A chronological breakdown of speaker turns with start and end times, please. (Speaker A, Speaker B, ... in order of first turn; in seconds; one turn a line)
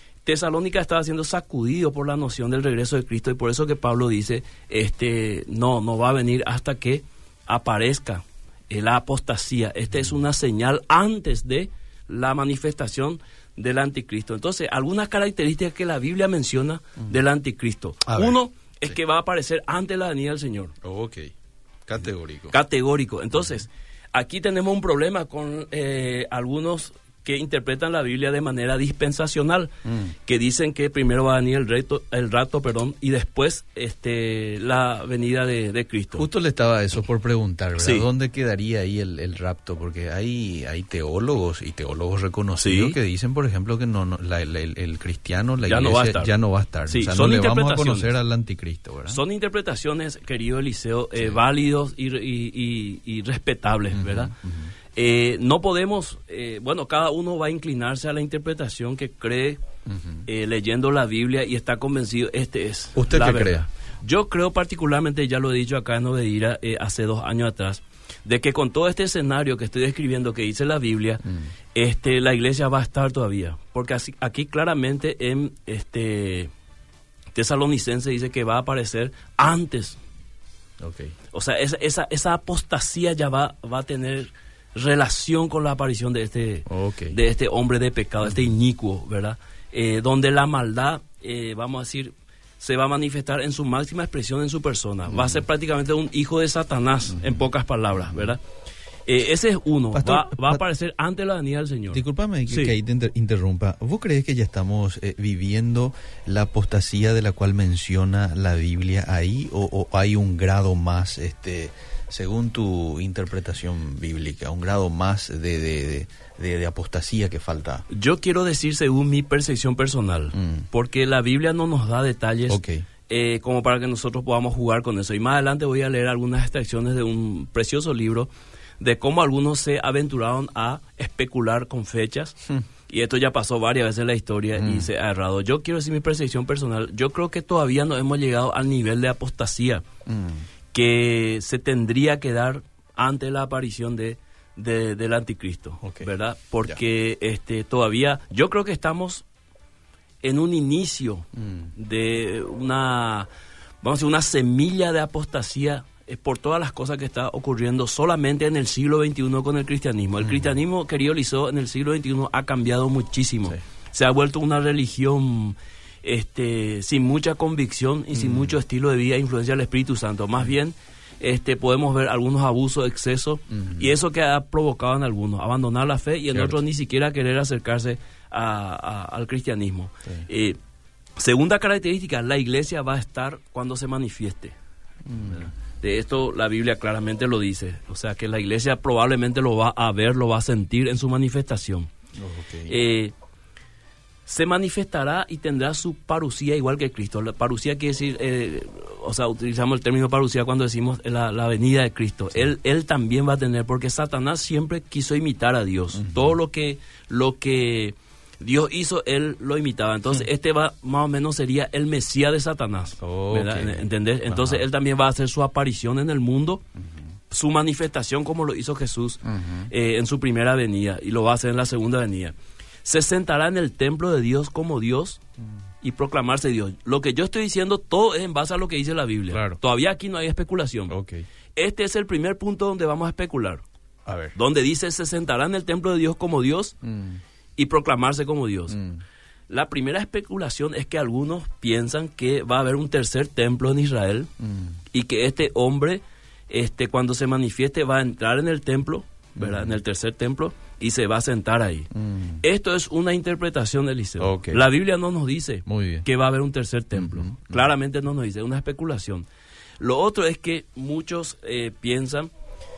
Speaker A: 0.2-20.7
Speaker B: 18.1-19.0
Speaker B: 20.8-21.3
Speaker B: 21.9-22.6
Speaker A: 22.5-29.7
Speaker B: 29.9-30.1
Speaker A: 30.2-36.3
Speaker B: 36.2-49.2
Speaker A: 37.8-38.1
Speaker A: 42.6-43.0
Speaker A: 45.7-46.3
Speaker A: 46.9-48.1
Speaker A: 49.1-54.3
Speaker B: 53.9-54.7
Speaker A: 54.9-59.6
Speaker B: 59.9-60.2
Speaker A: 60.2-76.5
Speaker B: 63.0-63.7
Speaker A: 77.3-80.0
Speaker B: 80.8-81.1
Speaker A: 81.3-98.4
Speaker B: 86.7-87.1
Speaker B: 95.1-95.4
Speaker B: 97.2-97.4
Speaker A: 99.1-102.7
Speaker B: 99.9-100.6
Speaker B: 101.9-117.8
Speaker A: 117.9-128.3
Speaker B: 120.3-120.7
Speaker B: 122.5-122.8
Speaker A: 128.8-139.8
Speaker B: 134.6-134.9
Speaker B: 140.1-140.4
Speaker A: 140.7-149.2
Speaker B: 145.8-146.1
Speaker A: 150.2-153.3
Speaker B: 151.4-151.7
Speaker A: 153.8-180.6
Speaker B: 160.2-160.5
Speaker B: 168.1-168.5
Speaker B: 173.5-173.9
Speaker B: 176.3-176.6
Speaker A: 181.2-184.6
Speaker B: 185.1-185.5
Speaker A: 185.3-191.9
Speaker B: 192.2-192.7
Speaker A: 192.7-193.1
Speaker A: 194.2-216.6
Speaker B: 205.9-206.4
Speaker B: 213.0-214.6
Speaker A: 217.3-225.2
Speaker B: 219.2-219.7
Speaker A: 225.8-230.9
Speaker B: 229.3-229.6
Speaker B: 230.9-231.2
Speaker A: 231.6-233.6
Speaker B: 234.1-234.3
Speaker A: 234.3-236.8
Speaker B: 236.8-237.2
Speaker A: 237.6-238.8
Speaker B: 238.7-239.0
Speaker A: 239.5-244.3
Speaker B: 244.4-244.7
Speaker A: 244.9-251.9
Speaker B: 249.4-249.7
Speaker B: 251.9-252.4
Speaker A: 252.4-259.2
Speaker B: 254.2-254.6
Speaker B: 255.7-256.1
Speaker B: 256.9-257.6
Speaker A: 259.8-262.3